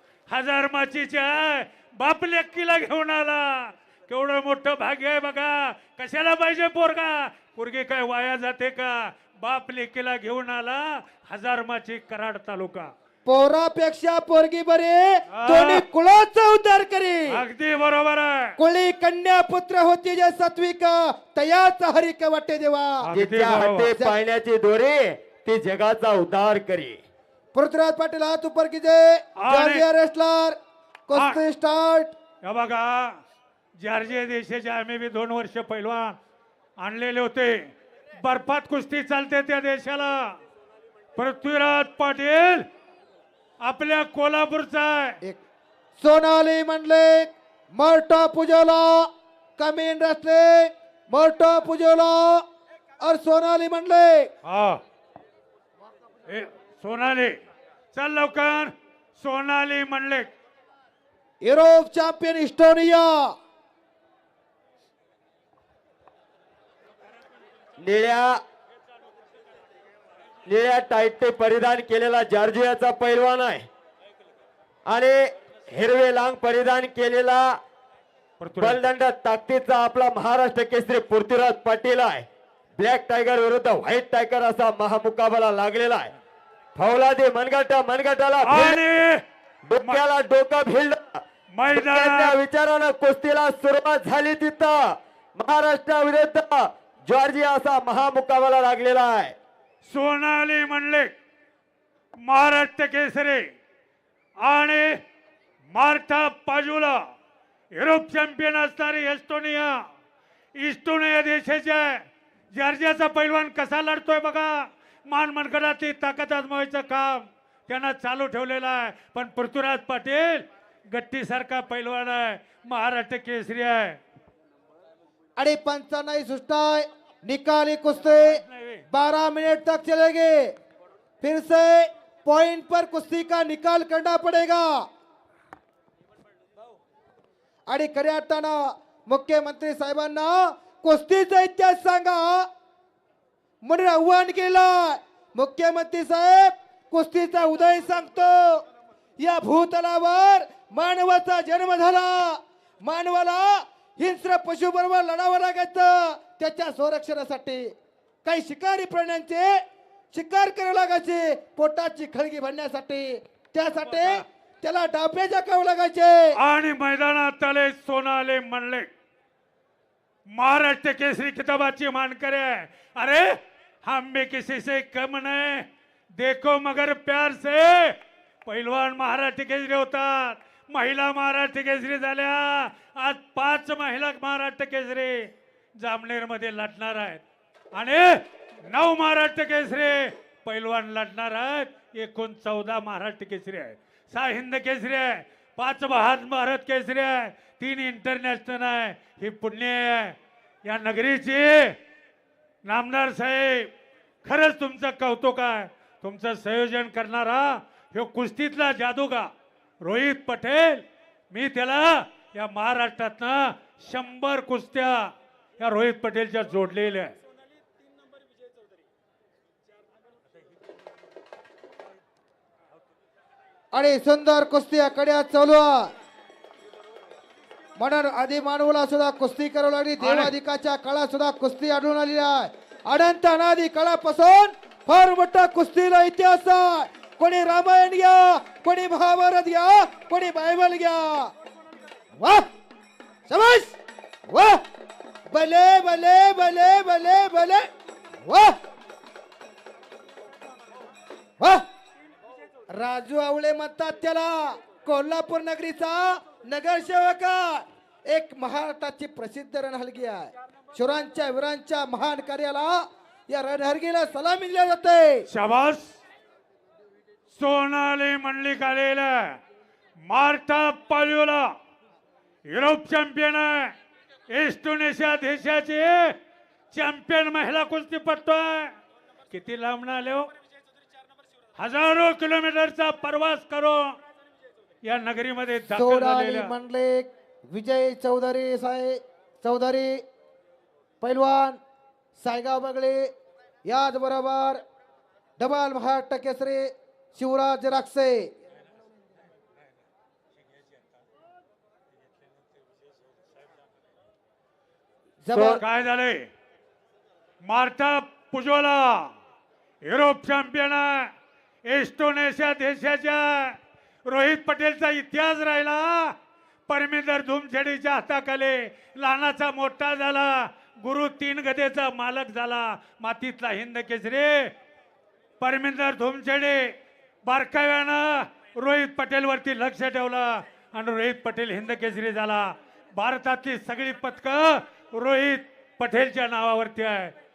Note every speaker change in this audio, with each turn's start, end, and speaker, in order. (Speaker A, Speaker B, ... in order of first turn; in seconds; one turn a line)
Speaker A: 0.3-12.9
Speaker B: 13.2-17.4
Speaker A: 15.3-15.8
Speaker A: 17.3-18.6
Speaker B: 18.6-23.0
Speaker A: 23.0-23.9
Speaker C: 23.1-27.0
Speaker B: 27.5-32.1
Speaker A: 29.4-29.8
Speaker A: 31.1-31.4
Speaker A: 32.4-33.1
Speaker A: 33.8-36.2
Speaker A: 36.8-37.7
Speaker A: 38.2-40.3
Speaker A: 41.1-42.7
Speaker A: 43.6-45.2
Speaker B: 46.0-52.4
Speaker B: 53.0-54.3
Speaker A: 54.4-54.8
Speaker A: 56.2-57.4
Speaker A: 57.9-60.3
Speaker B: 61.4-63.3
Speaker C: 67.8-68.4
Speaker C: 70.5-73.7
Speaker C: 74.9-77.5
Speaker A: 78.4-78.8
Speaker C: 78.6-82.2
Speaker C: 82.8-86.1
Speaker C: 86.8-88.8
Speaker A: 88.4-89.2
Speaker C: 89.7-91.2
Speaker A: 91.5-92.4
Speaker C: 91.7-99.3
Speaker A: 99.8-101.1
Speaker A: 102.2-103.4
Speaker A: 104.4-105.0
Speaker A: 105.7-107.0
Speaker A: 107.7-109.8
Speaker A: 110.5-124.0
Speaker B: 125.3-130.5
Speaker A: 128.0-128.8
Speaker B: 131.2-134.8
Speaker B: 137.7-142.5
Speaker B: 143.6-148.6
Speaker B: 149.2-157.7
Speaker B: 158.2-159.5
Speaker B: 160.1-166.3
Speaker A: 166.4-168.9
Speaker A: 170.3-177.9
Speaker A: 178.4-187.2
Speaker A: 187.7-201.8
Speaker A: 202.6-203.7
Speaker A: 204.2-209.3
Speaker A: 209.8-217.1
Speaker B: 223.7-225.9
Speaker B: 227.8-241.3
Speaker A: 230.0-230.3
Speaker B: 242.2-242.4
Speaker B: 243.3-243.8
Speaker B: 244.3-244.6
Speaker B: 245.3-247.7
Speaker B: 248.2-248.6
Speaker B: 252.7-265.2
Speaker A: 265.3-266.0
Speaker A: 267.3-269.4
Speaker A: 270.0-271.5
Speaker A: 272.5-273.7
Speaker A: 274.3-276.1
Speaker A: 276.7-278.7
Speaker A: 279.3-280.3
Speaker A: 281.6-283.9
Speaker A: 284.8-286.5
Speaker B: 285.7-290.0
Speaker B: 291.0-291.6
Speaker B: 292.2-293.1
Speaker B: 293.6-294.6
Speaker B: 295.4-298.3
Speaker B: 305.2-305.6
Speaker C: 305.3-305.6
Speaker A: 305.5-306.3
Speaker A: 307.4-309.1
Speaker A: 309.8-311.1
Speaker A: 311.6-316.1
Speaker A: 316.7-324.5
Speaker A: 325.4-326.7
Speaker A: 327.2-337.1